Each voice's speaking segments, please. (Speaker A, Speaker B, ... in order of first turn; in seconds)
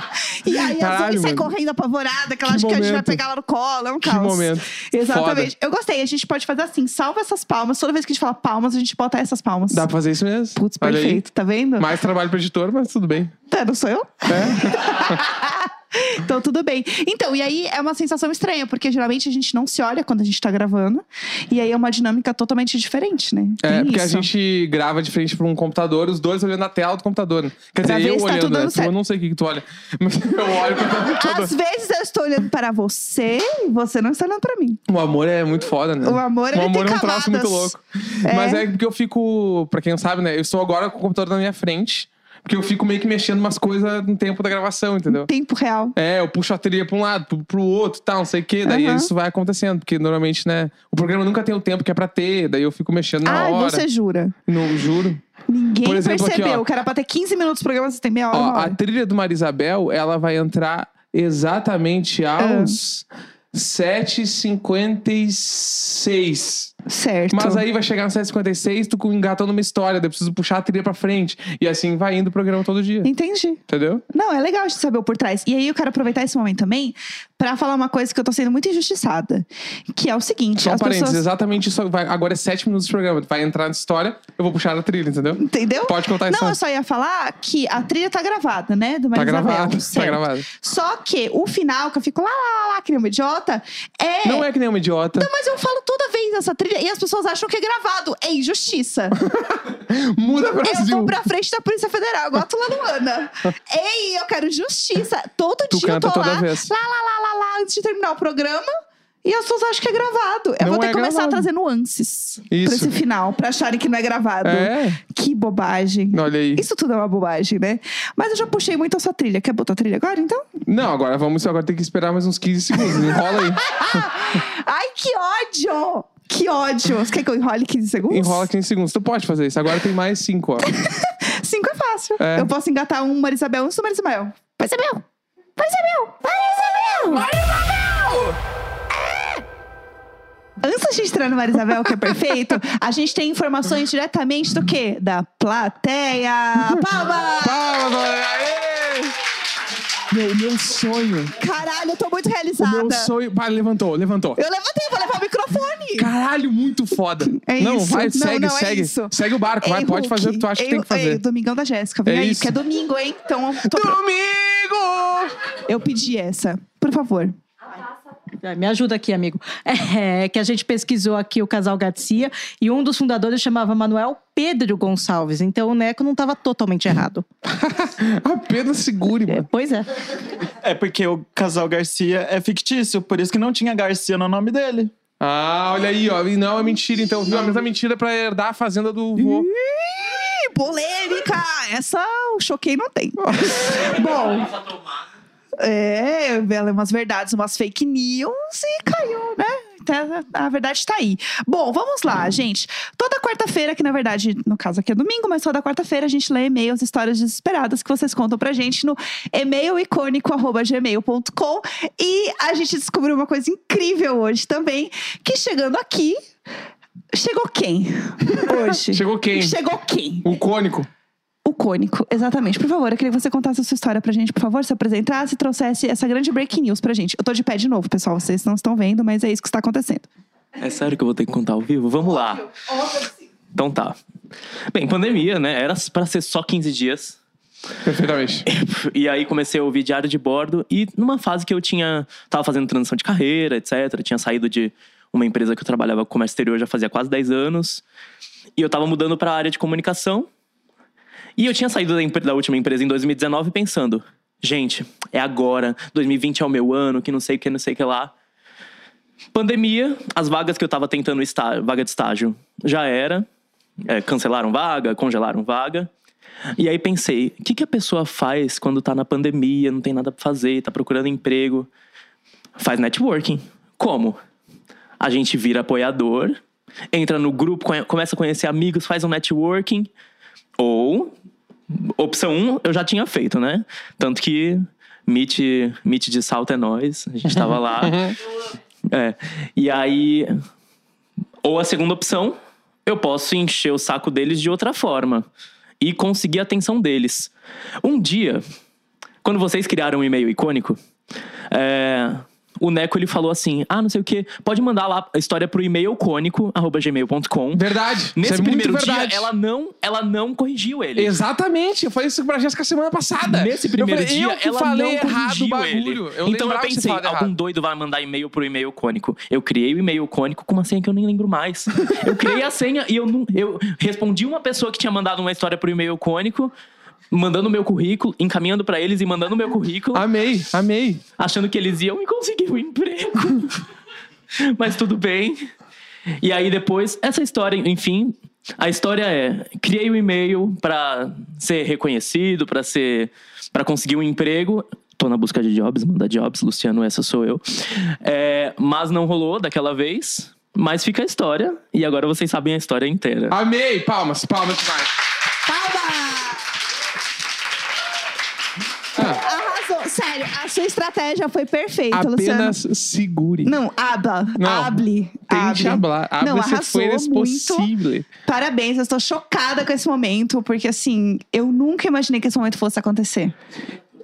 Speaker A: 0.4-9.9, 10.6-11.9, 13.5-24.3, 27.8-28.9, 31.1-34.8, 36.0-37.7, 38.2-38.7, 45.1-45.9, 48.6-49.1, 53.2-54.3, 55.5-58.8, 62.4-62.8, 66.9-67.6, 73.0-81.2, 85.4-94.5, 95.2-99.2, 100.6-108.7, 109.2-120.5, 123.0-128.5, 130.7-135.0, 135.6-138.3, 140.6-147.7, 151.4-153.1, 154.3-156.1, 157.3-164.0, 165.7-167.3, 189.2-194.6, 195.6-216.2, 217.1-220.3, 221.4-230.1, 355.4-356.6, 359.0-362.6, 363.4-367.7, 368.2-373.3
Speaker B: 0.6-1.5, 2.4-3.2, 4.0-5.5, 9.7-11.2, 11.8-13.3, 14.3-15.2, 23.6-31.5, 34.9-45.3, 45.9-53.9, 54.5-55.2, 55.8-56.6, 58.3-66.7, 67.3-73.1, 73.7-74.0, 80.5-86.6, 89.1-90.5, 94.2-95.3, 99.2-101.1, 105.7-106.7, 110.6-111.5, 112.5-112.9, 114.4-115.0, 116.1-116.6, 120.6-124.0, 128.1-130.7, 132.2-132.5, 147.4-149.2, 150.1-151.3, 152.6-154.4, 156.0-161.2, 162.1-162.6, 163.6-165.3, 177.4-179.5, 185.2-189.5, 193.2-193.8, 218.3-219.6, 220.2-220.9, 237.8-238.5, 287.3-288.2, 307.5-309.3, 311.0-317.3, 329.9-331.0, 353.3-354.9, 358.9-359.2, 361.9-363.5, 364.4-368.1
Speaker C: 168.4-177.2, 179.3-179.9
Speaker D: 180.6-184.9
Speaker E: 230.6-232.5, 233.5-233.9, 234.7-237.2, 238.5-247.8, 248.6-250.3, 251.4-258.1, 259.3-263.3, 263.8-265.9, 266.6-271.7, 272.6-274.2, 275.0-276.4, 276.9-279.9, 280.6-281.1, 281.7-288.0, 288.9-290.3, 291.4-295.3, 295.8-297.3, 297.8-298.4, 299.2-300.8, 301.5-307.6, 308.2-311.1, 313.2-326.5, 327.1-330.0, 331.2-333.6, 334.4-335.4, 336.2-353.4